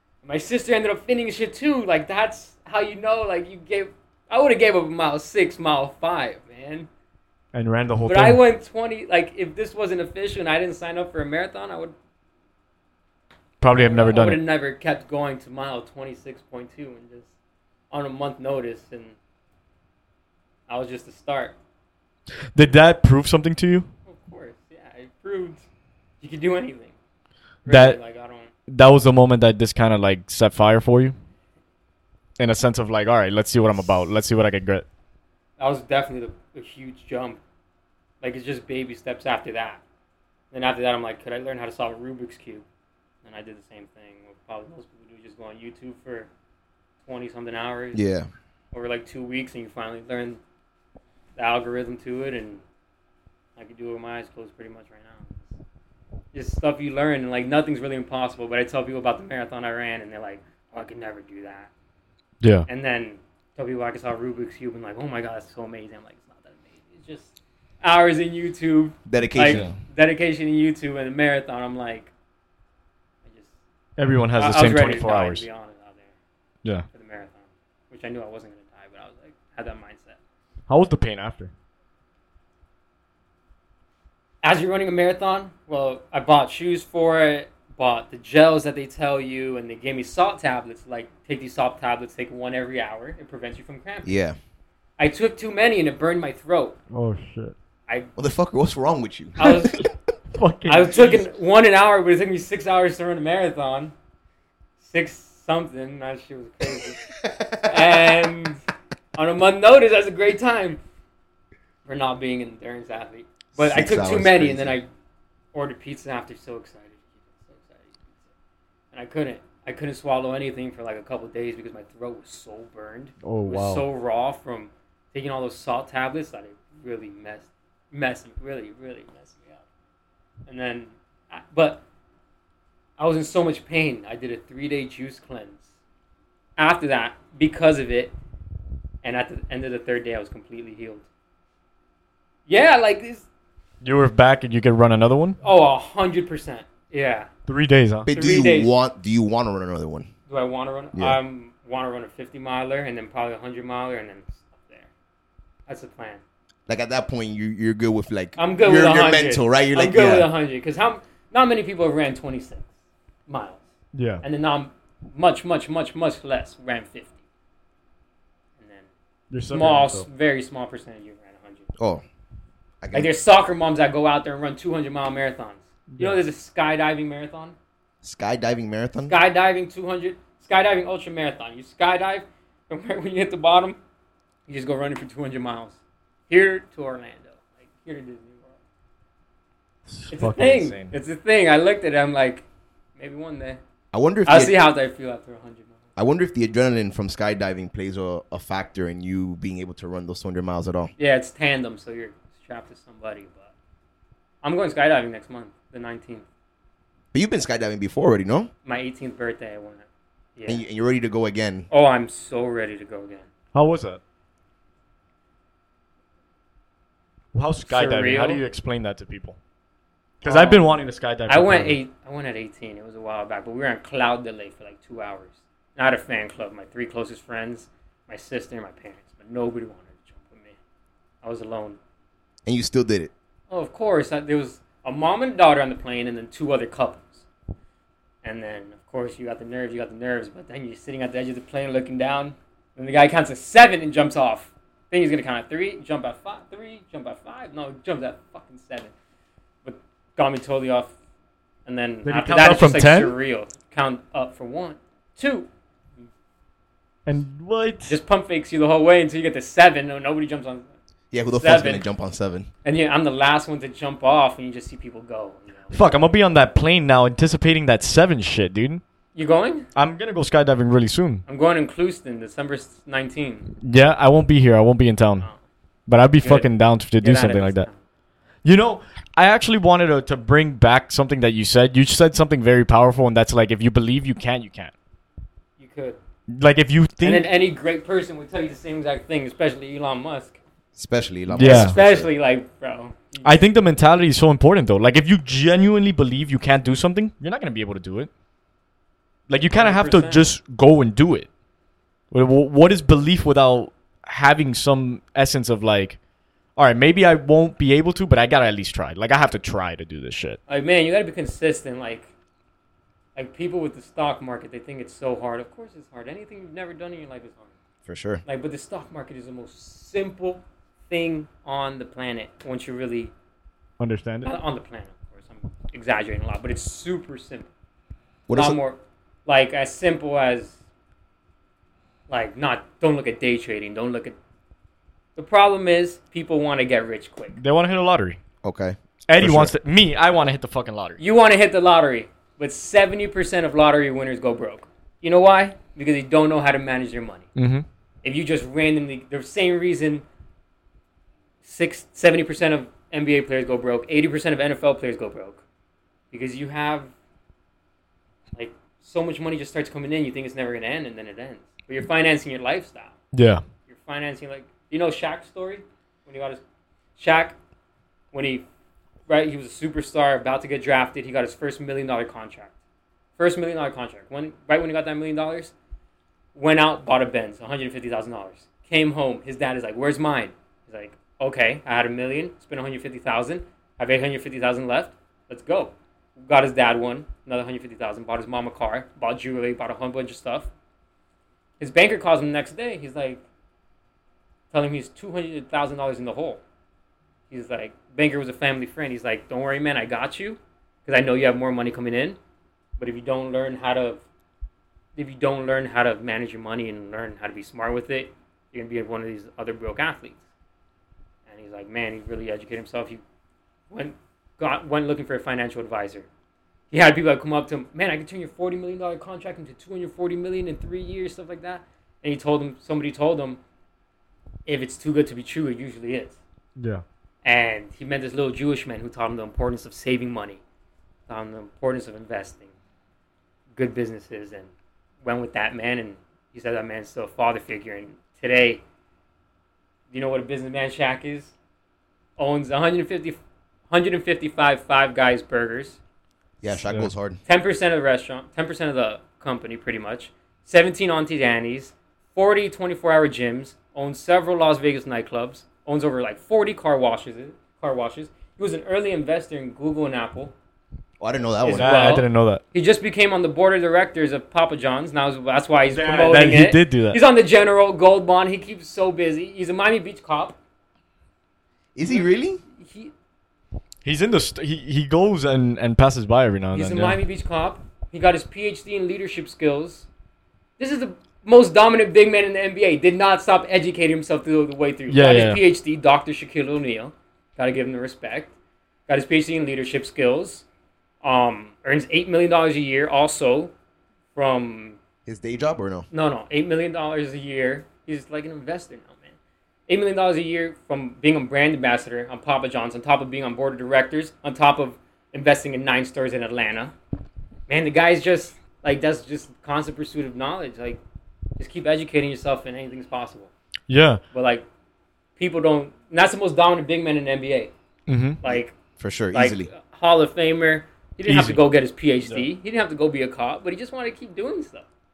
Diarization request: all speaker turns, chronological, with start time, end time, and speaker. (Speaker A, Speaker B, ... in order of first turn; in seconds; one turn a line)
Speaker A: 0.2-6.9
Speaker B: 7.5-8.4
Speaker A: 8.1-11.9
Speaker B: 13.6-14.4
Speaker A: 13.8-17.3
Speaker A: 17.9-19.1
Speaker A: 20.7-21.6
Speaker B: 22.5-23.9
Speaker A: 24.1-25.6
Speaker A: 26.2-26.9
Speaker A: 27.6-28.5
Speaker B: 27.7-28.0
Speaker B: 28.7-31.1
Speaker B: 32.4-34.9
Speaker A: 35.6-37.4
Speaker A: 38.2-39.8
Speaker A: 40.5-42.6
Speaker A: 43.2-46.3
Speaker A: 47.0-48.0
Speaker C: 47.9-48.3
Speaker A: 48.7-50.4
Speaker A: 51.4-52.6
Speaker A: 53.5-55.5
Speaker A: 56.3-61.7
Speaker B: 62.4-62.7
Speaker A: 62.7-72.1
Speaker C: 69.0-69.7
Speaker B: 69.5-69.8
Speaker A: 73.2-73.5
Speaker B: 74.0-75.5
Speaker A: 74.4-76.1
Speaker A: 76.9-80.2
Speaker B: 80.7-81.5
Speaker A: 84.4-94.2
Speaker C: 94.0-94.3
Speaker A: 95.0-96.8
Speaker B: 96.9-97.5
Speaker C: 98.2-99.9
Speaker A: 99.4-99.8
Speaker B: 100.3-101.2
Speaker A: 100.7-103.9
Speaker A: 104.8-107.0
Speaker C: 106.6-108.0
Speaker A: 107.6-108.6
Speaker A: 109.1-110.8
Speaker A: 111.8-114.9
Speaker C: 113.5-114.7
Speaker A: 115.5-118.1
Speaker A: 118.9-129.6
Speaker B: 123.2-123.8
Speaker A: 130.5-131.8
Speaker A: 133.0-135.6
Speaker A: 136.6-138.1
Speaker A: 139.0-141.1
Speaker A: 142.5-143.2
Speaker B: 143.8-145.4
Speaker A: 145.4-147.3
Speaker B: 147.5-148.1
Speaker C: 148.0-150.1
Speaker A: 148.1-148.7
Speaker A: 150.3-154.9
Speaker A: 155.7-156.2
Speaker C: 156.7-160.3
Speaker A: 158.3-162.7
Speaker A: 163.3-163.7
Speaker B: 163.9-164.2
Speaker A: 164.2-167.2
Speaker A: 168.6-168.9
Speaker B: 169.3-170.1
Speaker A: 169.5-171.7
Speaker C: 171.8-172.0
Speaker C: 172.8-173.1
Speaker A: 172.9-177.6
Speaker B: 175.9-176.2
Speaker C: 178.0-179.1
Speaker A: 179.1-183.8
Speaker A: 184.5-188.6
Speaker B: 189.9-190.9
Speaker A: 190.1-193.6
Speaker C: 193.9-194.5
Speaker A: 194.2-195.8
Speaker C: 195.9-200.9
Speaker A: 201.0-203.5
Speaker A: 204.4-206.2
Speaker C: 207.1-208.5
Speaker A: 208.6-210.6
Speaker C: 210.5-211.7
Speaker A: 211.7-213.3
Speaker B: 213.5-214.0
Speaker B: 217.3-219.4
Speaker A: 217.6-218.4
Speaker B: 220.2-221.8
Speaker A: 220.2-220.6
Speaker A: 221.3-230.6
Speaker A: 231.2-231.8
Speaker C: 232.4-233.1
Speaker A: 233.5-237.2
Speaker A: 238.2-248.9
Speaker A: 249.6-250.9
Speaker A: 251.7-255.5
Speaker B: 252.0-253.1
Speaker B: 257.1-258.0
Speaker A: 257.9-260.7
Speaker C: 261.1-262.5
Speaker A: 261.3-261.9
Speaker A: 262.6-265.9
Speaker B: 265.7-268.8
Speaker A: 269.1-269.7
Speaker B: 269.8-271.2
Speaker A: 271.3-273.5
Speaker B: 273.6-275.3
Speaker B: 275.9-277.7
Speaker A: 276.2-277.8
Speaker B: 278.4-284.7
Speaker A: 285.6-286.0
Speaker B: 286.3-287.3
Speaker A: 287.0-290.4
Speaker C: 290.8-292.1
Speaker B: 291.3-291.8
Speaker A: 291.4-293.5
Speaker B: 293.2-298.1
Speaker B: 299.3-301.3
Speaker A: 299.5-300.2
Speaker B: 302.1-306.0
Speaker B: 306.6-310.4
Speaker A: 310.5-312.1
Speaker A: 313.1-317.5
Speaker C: 317.8-318.2
Speaker A: 318.2-323.1
Speaker B: 323.8-324.3
Speaker A: 324.2-327.5
Speaker C: 328.3-328.6
Speaker A: 328.3-330.6
Speaker A: 332.1-334.1
Speaker A: 335.1-337.4
Speaker B: 337.3-338.2
Speaker C: 338.4-339.5
Speaker B: 339.1-341.0
Speaker A: 341.0-347.3
Speaker B: 347.4-347.6
Speaker A: 348.0-350.0
Speaker A: 351.4-355.4
Speaker A: 356.1-356.9
Speaker A: 358.3-362.9
Speaker B: 363.1-363.4
Speaker A: 363.7-366.4
Speaker A: 366.9-367.4
Speaker A: 368.1-368.4
Speaker A: 369.1-372.5
Speaker A: 373.2-375.5
Speaker A: 376.3-390.5
Speaker A: 391.6-393.2
Speaker A: 394.5-396.4
Speaker A: 397.3-402.2
Speaker A: 402.8-404.0
Speaker A: 404.9-410.2
Speaker A: 411.3-413.0
Speaker A: 413.7-416.1
Speaker A: 416.7-423.4
Speaker A: 424.4-426.2
Speaker B: 426.6-426.8
Speaker A: 427.2-430.4
Speaker A: 431.1-432.5
Speaker A: 433.6-434.5
Speaker A: 435.0-438.6
Speaker A: 439.9-441.3
Speaker A: 442.2-445.8
Speaker C: 446.4-447.2
Speaker B: 446.5-446.9
Speaker A: 447.2-460.3
Speaker C: 461.0-461.8
Speaker A: 461.4-470.4
Speaker B: 461.5-462.4
Speaker B: 465.7-467.0
Speaker C: 471.7-472.4
Speaker A: 471.9-472.9
Speaker B: 473.8-477.0
Speaker A: 476.5-479.9
Speaker A: 480.6-488.3
Speaker B: 484.9-485.4
Speaker A: 488.9-490.4
Speaker A: 491.0-493.5
Speaker A: 494.1-494.8
Speaker C: 495.1-495.9
Speaker A: 495.9-499.1
Speaker A: 499.7-506.7
Speaker A: 507.5-510.8
Speaker A: 511.4-513.3
Speaker B: 513.7-514.0
Speaker A: 514.1-514.5
Speaker A: 515.2-517.5
Speaker B: 517.9-518.2
Speaker A: 518.2-518.5
Speaker C: 518.2-519.5
Speaker A: 519.1-524.6
Speaker B: 521.0-521.4